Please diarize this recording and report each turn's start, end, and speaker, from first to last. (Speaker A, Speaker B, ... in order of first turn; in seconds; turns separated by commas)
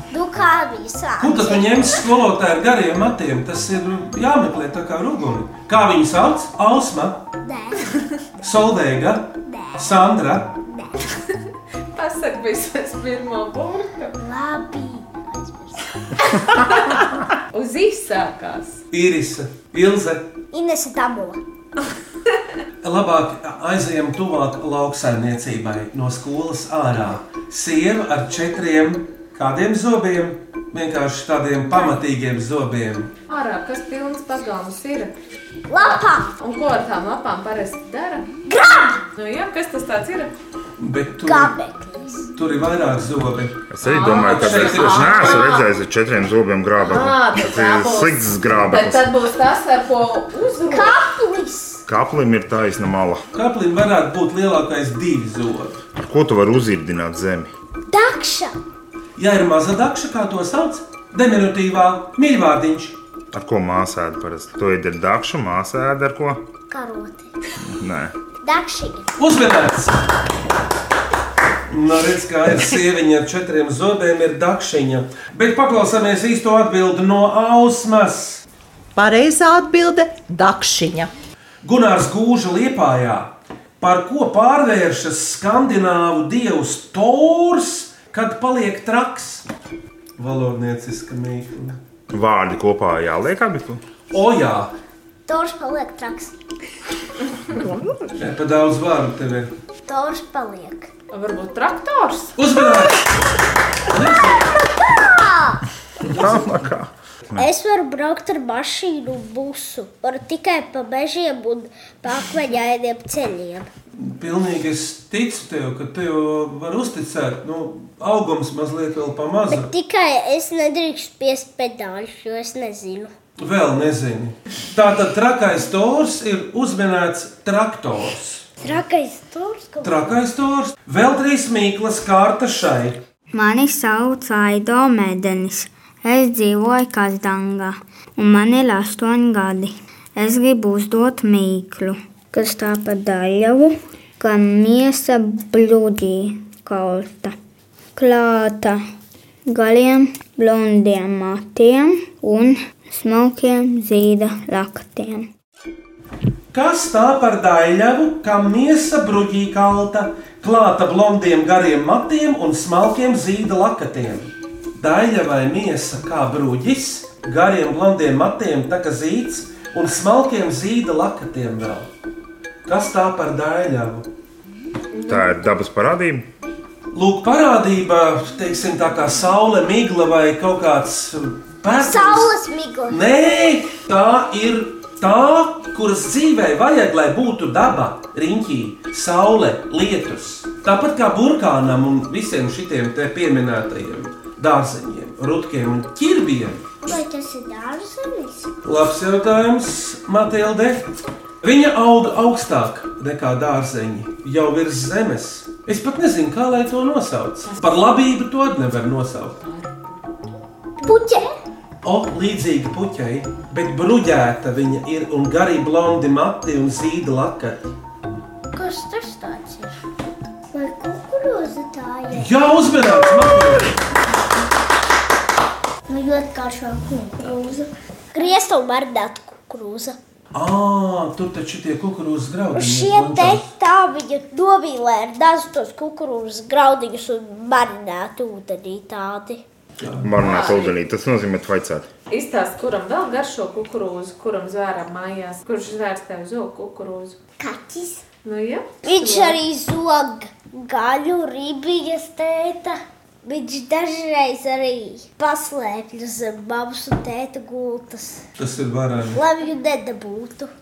Speaker A: 0.1-2.0, Speaker B: 1.2-7.2, Speaker A: 7.4-8.0, Speaker B: 8.4-10.6, Speaker A: 9.5-10.0, Speaker A: 10.7-11.0, Speaker C: 11.9-14.2, Speaker A: 14.2-15.9, Speaker C: 17.5-18.8, Speaker B: 18.9-20.2, Speaker A: 20.5-21.4, Speaker B: 22.8-33.1, Speaker C: 33.3-35.1, Speaker A: 35.7-36.3, Speaker C: 35.8-38.3, Speaker A: 38.5-39.0, Speaker C: 39.1-40.3, Speaker B: 40.8-41.5, Speaker A: 41.2-42.3, Speaker B: 42.4-45.5, Speaker D: 43.7-49.1, Speaker C: 43.8-45.7, Speaker C: 46.8-51.0, Speaker A: 50.7-51.8, Speaker D: 51.9-53.2, Speaker B: 53.3-55.8, Speaker D: 56.0-57.5, Speaker A: 57.9-58.6, Speaker B: 59.2-63.0, Speaker D: 63.3-66.4, Speaker A: 66.7-67.3, Speaker D: 67.6-68.1, Speaker A: 68.4-69.1, Speaker B: 69.2-70.0, Speaker B: 71.7-78.4, Speaker E: 79.0-81.1, Speaker B: 81.6-89.5, Speaker B: 90.2-91.8, Speaker D: 92.1-93.8, Speaker B: 94.1-94.7, Speaker A: 95.3-96.4, Speaker B: 98.2-99.5, Speaker A: 99.9-100.9, Speaker C: 101.1-102.3, Speaker B: 102.4-103.1, Speaker B: 103.9-104.5, Speaker A: 104.6-105.6, Speaker B: 106.0-106.7, Speaker D: 106.2-107.5, Speaker A: 107.4-113.7, Speaker B: 114.0-119.7, Speaker A: 119.5-123.1, Speaker B: 123.4-128.4, Speaker A: 128.6-130.0, Speaker B: 129.8-133.0, Speaker F: 133.3-147.3, Speaker F: 148.0-148.8, Speaker F: 149.5-155.3, Speaker B: 156.5-171.9, Speaker B: 172.7-174.1, Speaker C: 174.9-175.3, Speaker D: 175.1-176.2, Speaker B: 176.9-182.3, Speaker A: 181.7-183.0, Speaker B: 182.9-196.6, Speaker A: 196.8-198.5, Speaker B: 198.6-200.8, Speaker B: 201.4-209.4, Speaker C: 207.4-207.7, Speaker C: 209.4-210.0, Speaker A: 210.8-211.3, Speaker B: 211.8-217.6, Speaker A: 218.5-219.8, Speaker A: 220.5-223.6, Speaker B: 222.1-223.8, Speaker A: 225.9-230.0, Speaker B: 230.3-233.5, Speaker A: 232.5-239.4, Speaker B: 239.8-240.5, Speaker D: 240.0-241.9, Speaker A: 240.2-240.7, Speaker C: 242.1-247.2, Speaker A: 247.4-248.1, Speaker C: 248.2-249.4, Speaker A: 248.8-258.2, Speaker B: 258.4-259.2, Speaker A: 259.1-260.5